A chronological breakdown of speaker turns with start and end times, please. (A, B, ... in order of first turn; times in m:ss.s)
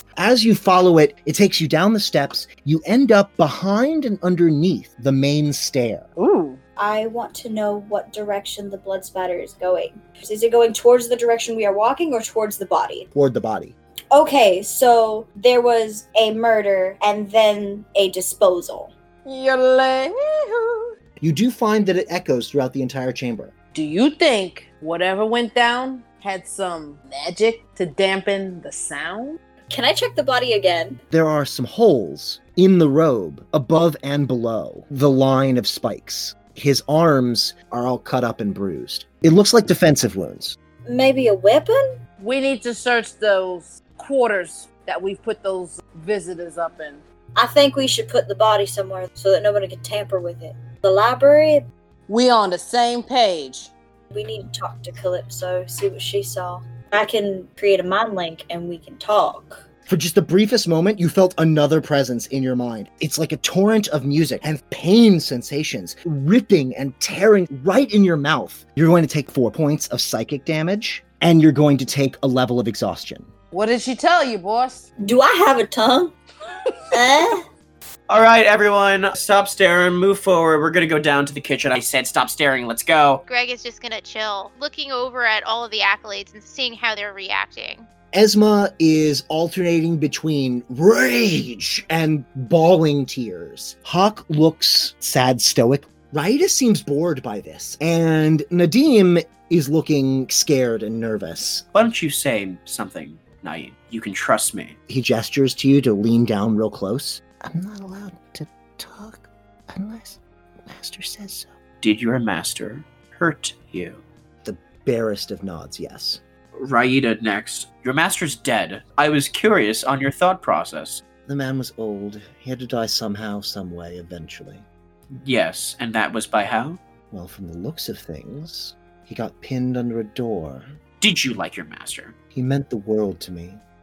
0:00.2-0:06.1 A
0:06.2-0:06.6 B
0:06.8-0:13.1 C
0:13.1-0:13.8 A
0:14.1-0:18.9 C
0:19.2-0:20.9 B
0:21.2-0:23.5 A
0:23.7-0:29.4 B
0:29.7-0:31.0 C
0:31.1-0:40.6 A
0:40.9-0:41.8 C
0:42.2-0:47.0 B
0:47.4-0:51.6 C
0:52.1-0:53.7 B
0:54.1-0:59.6 C
0:59.9-1:13.3 A
1:13.5-1:14.9 B
1:15.0-1:16.1 C
1:16.9-1:17.5 C
1:18.1-1:23.2 D
1:23.3-1:27.9 E
1:28.1-1:41.7 A
1:41.7-1:44.8 D
1:44.9-1:51.5 A
1:51.8-1:54.0 D
1:54.4-1:56.2 A
1:56.6-2:01.0 D
2:01.2-2:04.7 A
2:05.2-2:06.8 D
2:07.1-2:10.7 A
2:11.0-2:12.2 D
2:12.3-2:13.6 A